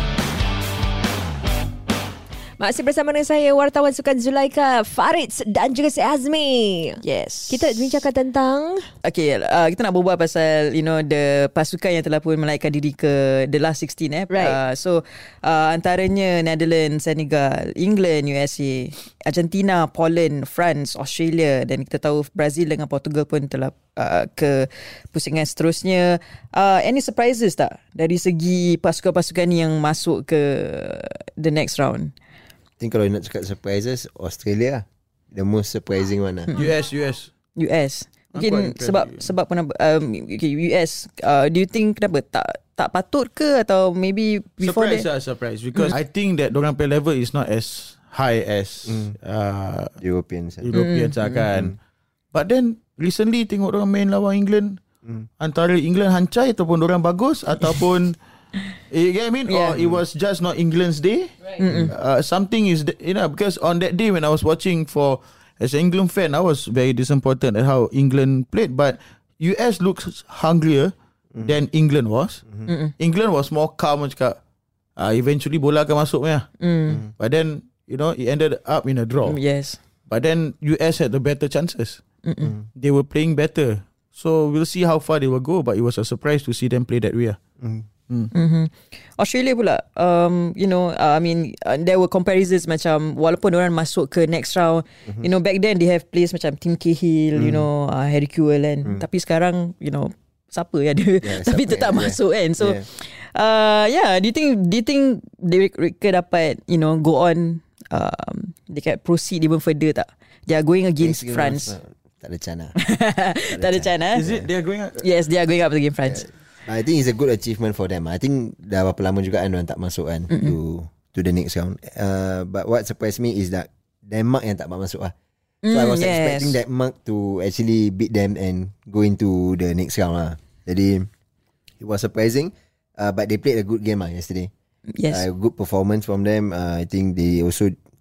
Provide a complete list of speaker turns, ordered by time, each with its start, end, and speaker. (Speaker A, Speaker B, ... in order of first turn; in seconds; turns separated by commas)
Speaker A: 2.6-8.9, Speaker B: 7.1-7.6, Speaker B: 9.0-32.1, Speaker A: 14.3-14.6, Speaker C: 32.8-36.5, Speaker B: 36.5-36.7, Speaker D: 36.5-37.3, Speaker B: 37.6-45.1, Speaker D: 38.3-39.2, Speaker D: 44.6-50.0, Speaker C: 48.9-49.1, Speaker C: 50.0-50.7, Speaker D: 50.6-51.8, Speaker B: 50.7-51.5, Speaker D: 52.3-54.8, Speaker D: 55.4-58.2, Speaker D: 58.9-72.5, Speaker B: 59.5-59.8, Speaker C: 59.8-60.0, Speaker B: 61.6-61.9, Speaker B: 72.7-72.9, Speaker D: 73.0-74.4, Speaker D: 75.0-76.5, Speaker B: 76.6-77.0, Speaker D: 77.2-79.4, Speaker B: 79.2-79.8, Speaker D: 80.1-82.0, Speaker B: 82.2-82.5, Speaker D: 82.8-87.4, Speaker C: 87.6-87.9, Speaker B: 88.3-111.8, Speaker C: 97.4-97.7, Speaker C: 101.2-102.9, Speaker C: 111.0-112.8, Speaker B: 112.8-114.2, Speaker C: 113.5-114.5, Speaker D: 114.2-115.0, Speaker B: 115.0-116.3, Speaker C: 116.1-125.1, Speaker B: 120.3-120.5, Speaker B: 125.6-126.6, Speaker C: 125.7-131.1, Speaker C: 131.8-134.5, Speaker B: 134.9-135.3, Speaker C: 135.1-137.8